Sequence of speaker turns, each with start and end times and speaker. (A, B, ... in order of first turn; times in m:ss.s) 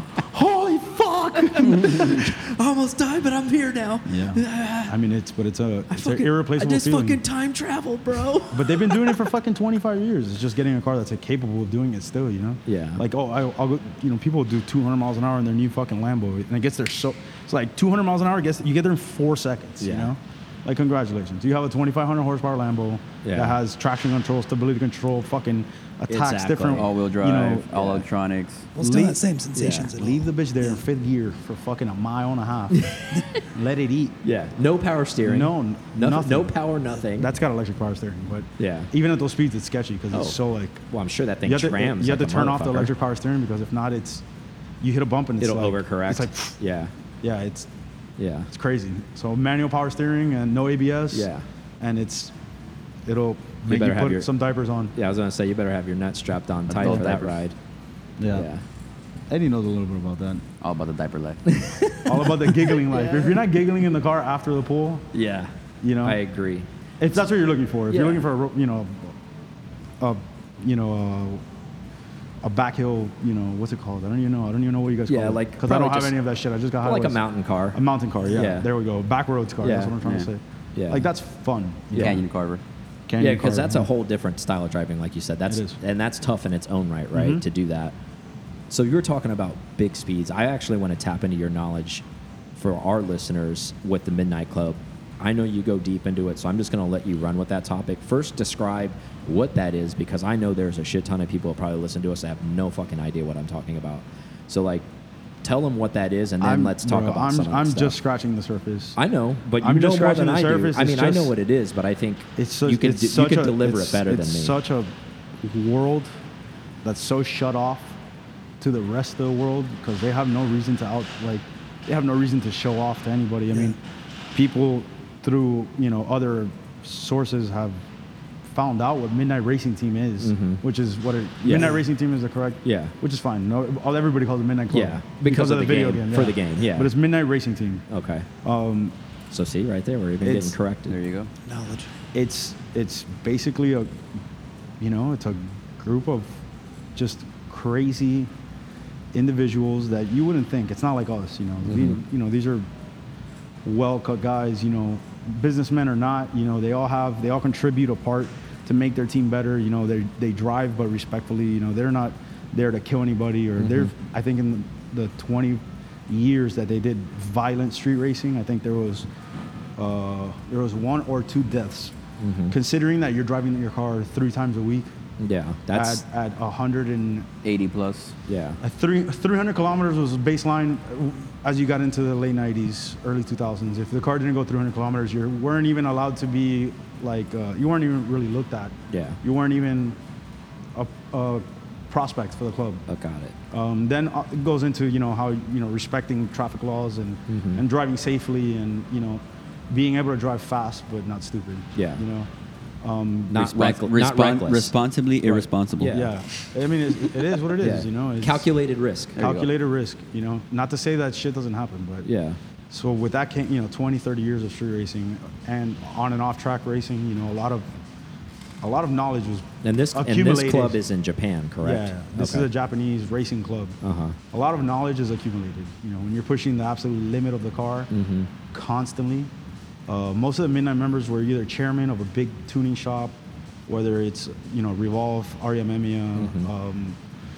0:00.1-0:02.4 A
0:01.3-0:04.9 B
0:04.0-0:07.2 A
0:05.9-0:09.2 B
0:08.5-0:28.0 A
0:12.6-0:13.0 B
0:19.8-0:20.1 B
0:23.2-0:23.6 B
0:26.1-0:26.9 B
0:26.8-0:28.7 C
0:28.7-0:30.8 D
0:28.8-0:29.2 A
0:29.5-0:29.9 B
0:29.9-0:32.8 A
0:32.7-0:33.4 B
0:33.4-0:34.2 A
0:34.2-0:37.3 B
0:35.2-0:40.8 A
0:38.6-0:38.9 B
0:40.1-0:42.9 B
0:41.4-0:44.2 A
0:44.8-0:46.6 A
0:45.4-0:46.9 B
0:47.2-0:47.7 A
0:48.2-0:48.5 B
0:48.5-0:51.3 A
0:51.1-0:51.4 B
0:51.8-0:52.3 A
0:53.0-0:54.9 A
0:53.6-0:54.3 B
0:54.9-0:57.6 B
0:56.7-0:57.4 C
0:56.8-0:57.2 A
0:58.2-0:58.5 A
0:58.2-0:58.6 B
0:59.3-1:00.4 A
1:00.6-1:01.4 C
1:01.5-1:02.8 B
1:02.0-1:05.1 A
1:05.1-1:05.5 B
1:05.8-1:06.2 A
1:06.0-1:06.7 B
1:07.0-1:09.1 A
1:07.9-1:08.2 B
1:10.0-1:11.4 A
1:12.4-1:22.2 A
1:15.1-1:16.2 B
1:16.8-1:17.8 B
1:18.3-1:18.7 B
1:19.6-1:19.9 B
1:20.0-1:20.3 C
1:20.8-1:21.1 B
1:21.9-1:22.2 B
1:21.9-1:22.6 C
1:23.1-1:23.9 A
1:23.2-1:27.9 B
1:25.5-1:25.8 A
1:27.1-1:27.4 A
1:28.7-1:32.0 B
1:32.6-1:44.8 B
1:45.4-1:48.0 B
1:46.4-1:49.0 A
1:49.0-1:54.6 B
1:49.6-1:51.3 A
1:52.4-1:56.1 A
1:56.8-1:58.0 A
1:58.6-2:03.8 A
2:04.3-2:07.8 A
2:08.5-2:17.8 A
2:10.2-2:10.6 B
2:11.4-2:11.8 B
2:12.6-2:12.9 B
2:14.7-2:16.9 B
2:17.9-2:18.3 B
2:18.4-2:18.9 A
2:19.3-2:20.9 B
2:20.2-2:20.6 A
2:20.9-2:21.3 C
2:21.4-2:21.9 D
2:22.1-2:24.0 A
2:24.8-2:26.4 A
2:26.9-2:28.3 A
2:29.1-2:32.7 A
2:31.7-2:32.0 B
2:33.6-2:49.1 A
2:43.6-2:43.9 B
2:49.8-2:52.0 A
2:52.2-2:52.5 B
2:52.5-2:54.9 A
2:55.2-2:56.0 B
2:55.7-2:57.3 A
2:57.4-2:58.2 C
2:58.3-2:58.6 B
2:58.6-3:10.0 A
3:08.9-3:09.2 B
3:10.7-3:12.8 A
3:12.9-3:13.3 B
3:13.5-3:22.3 A
3:17.3-3:17.6 B
3:21.8-3:22.0 B
3:22.8-3:23.5 A
3:23.3-3:24.7 B
3:23.4-3:26.1 C
3:25.8-3:26.1 B
3:25.9-3:28.5 A
3:27.5-3:29.5 B
3:29.2-3:32.1 A
3:32.0-3:32.4 B
3:32.7-3:37.7 A
3:38.6-3:40.8 A
3:39.6-3:42.5 B
3:41.6-3:43.8 A
3:43.8-3:44.2 B
3:44.3-3:47.9 A
3:47.9-3:48.3 B
3:48.5-3:49.3 A
3:49.9-3:53.2 A
3:53.7-3:57.0 A
3:56.2-3:56.5 B